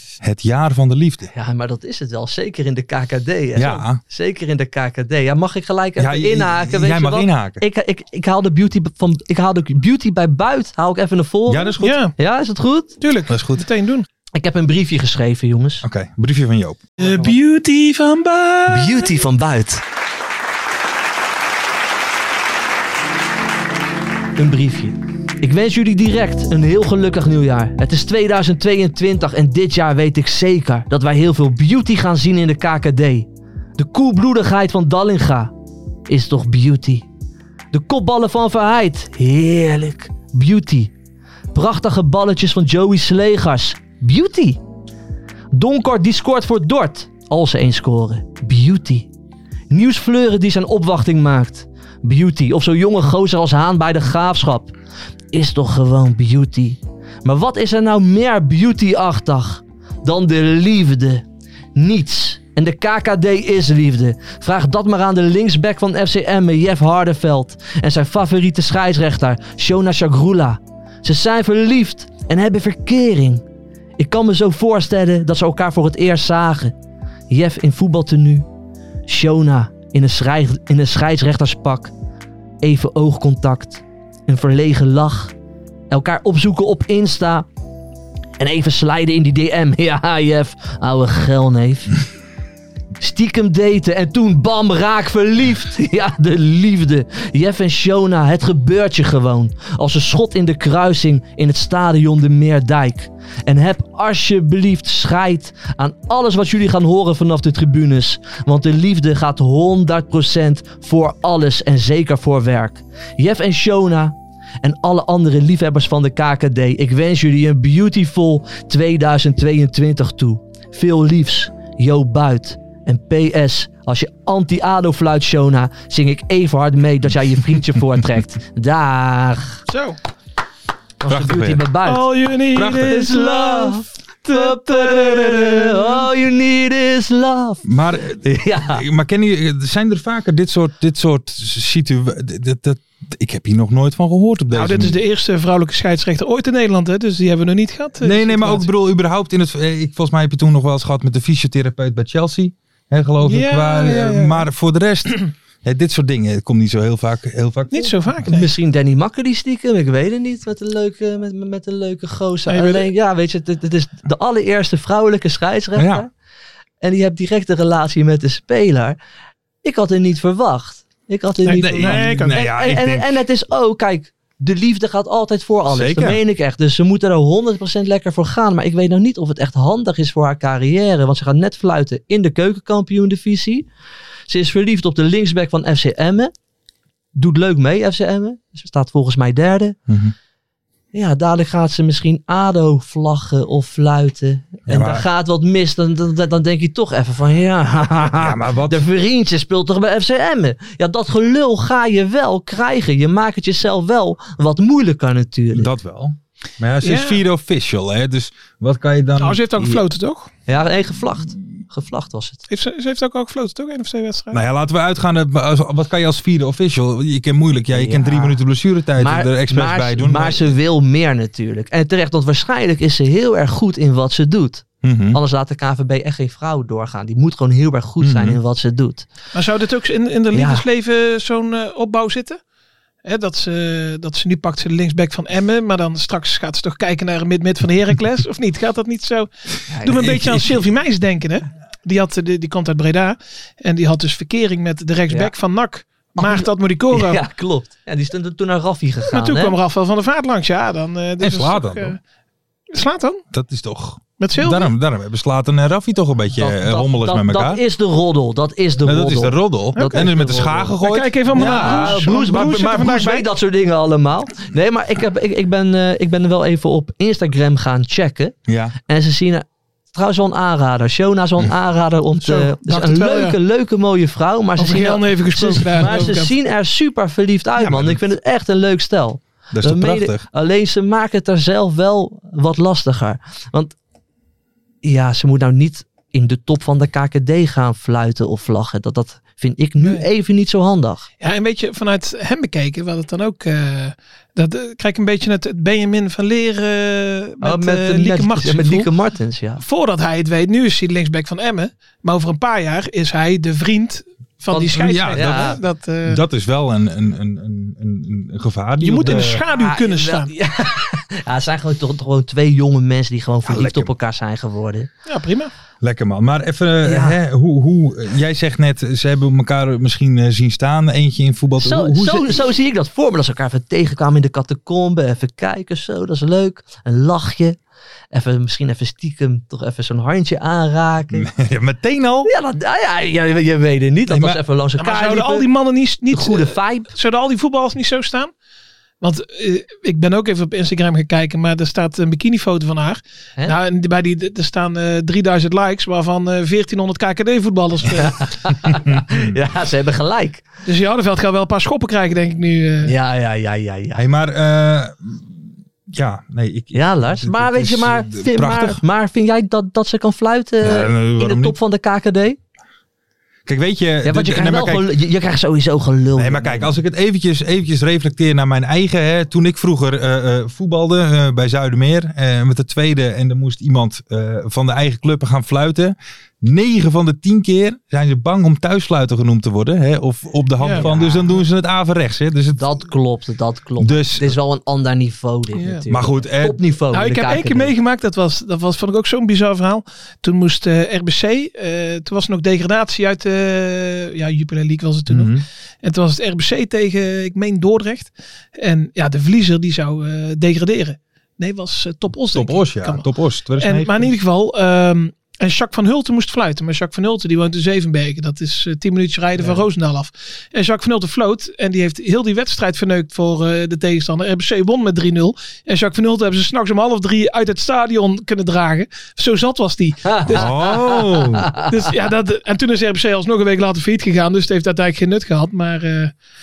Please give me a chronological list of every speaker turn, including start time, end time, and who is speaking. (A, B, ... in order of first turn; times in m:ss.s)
0:00.2-0:01.3 A
0:01.3-0:13.0 B
0:03.6-0:04.0 A
0:06.0-0:07.6 A
0:11.5-0:11.9 A
0:11.8-0:12.1 C
0:13.0-0:14.1 C
0:13.3-0:13.6 A
0:14.4-0:15.8 B
0:15.8-0:16.8 A
0:17.0-0:19.2 C
0:17.0-0:17.3 B
0:18.7-0:19.8 B
0:24.4-0:35.5 B
0:36.1-0:37.1 B
0:37.7-0:40.9 B
0:41.5-0:44.6 B
0:45.5-0:49.1 B
0:49.7-0:54.7 B
0:55.3-1:01.2 B
1:01.8-1:13.4 B
1:14.0-1:16.8 B
1:17.3-1:18.4 B
1:19.1-1:21.9 B
1:22.6-1:25.3 B
1:25.9-1:27.5 B
1:28.4-1:32.0 B
1:33.0-2:09.6 B
2:09.7-2:10.0 C
2:11.0-2:12.1 B
2:11.1-2:11.7 A
2:11.8-2:16.0 C
2:12.5-2:13.0 A
2:12.7-2:17.7 B
2:17.6-2:25.0 A
2:18.2-2:18.8 B
2:24.5-2:28.7 C
2:28.0-2:38.2 A
2:33.2-2:34.5 C
2:37.7-2:38.5 C
2:38.3-2:46.1 B
2:42.5-2:42.9 C
2:45.8-2:46.1 A
2:46.8-2:49.0 B
2:49.6-3:03.7 B
2:51.5-2:53.2 A
2:51.5-2:52.5 C
2:55.7-2:56.2 A
3:04.3-3:06.3 B
3:07.2-3:09.8 B
3:09.9-3:10.2 A
3:10.9-3:25.7 B
3:14.7-3:15.0 A
3:18.2-3:18.8 A
3:25.5-3:29.4 A
3:26.8-3:27.2 C
3:29.2-3:30.3 C
3:29.6-3:29.8 B
3:30.4-3:32.4 B
3:32.5-3:34.4 C
3:34.3-3:40.5 A
3:37.7-3:38.4 B
3:39.0-3:49.1 B
3:44.8-3:45.2 A
3:48.0-3:48.4 A
3:49.3-3:52.4 C
3:50.3-3:50.7 B
3:53.0-3:59.3 C
3:59.7-4:00.1 B
3:59.8-4:07.2 C
4:00.0-4:00.6 A
4:06.2-4:09.6 B
4:09.1-4:12.0 C
4:11.2-4:12.0 A
4:12.7-4:13.2 C
4:13.3-4:17.6 A
4:14.2-4:14.7 C
4:16.4-4:20.8 B
4:18.8-4:22.8 A
4:19.8-4:20.1 C
4:20.8-4:23.2 C
4:21.3-4:28.3 B
4:28.5-4:28.8 A
4:28.9-4:43.7 B
4:32.2-4:33.4 C
4:34.6-4:36.3 C
4:37.6-4:38.0 A
4:39.5-4:40.3 A
4:44.8-4:51.1 B
4:49.8-4:50.1 C
4:51.2-4:58.9 C
4:57.4-4:59.6 B
4:59.6-5:06.2 C
5:04.5-5:05.6 B
5:04.7-5:09.4 A
5:08.8-5:10.3 C
5:09.0-5:14.9 B
5:13.4-5:13.9 A
5:15.1-5:15.5 C
5:15.8-5:22.4 A
5:16.8-5:17.2 B
5:21.6-5:27.6 B
5:28.1-5:31.3 B
5:31.1-5:32.3 A
5:32.2-5:35.5 B
5:34.1-5:34.4 A
5:34.8-5:38.3 C
5:36.1-5:36.9 B
5:39.0-5:48.2 C
5:48.0-5:50.4 B
5:48.9-5:49.3 A
5:50.6-5:52.9 C
5:52.8-5:54.0 B
5:53.9-5:58.8 A
5:56.7-6:02.4 B
6:00.6-6:01.6 A
6:03.4-6:04.9 A
6:04.0-6:06.7 B
6:06.2-6:22.8 A
6:20.6-6:20.8 C
6:20.8-6:21.4 B
6:22.6-6:27.7 B
6:23.8-6:24.3 A
6:25.6-6:25.8 C
6:25.9-6:26.6 A
6:26.9-6:43.0 C
6:35.1-6:35.4 A
6:42.3-6:44.1 A
6:43.6-7:00.5 C
7:00.1-7:01.6 B
7:00.3-7:01.5 A
7:01.6-7:06.1 C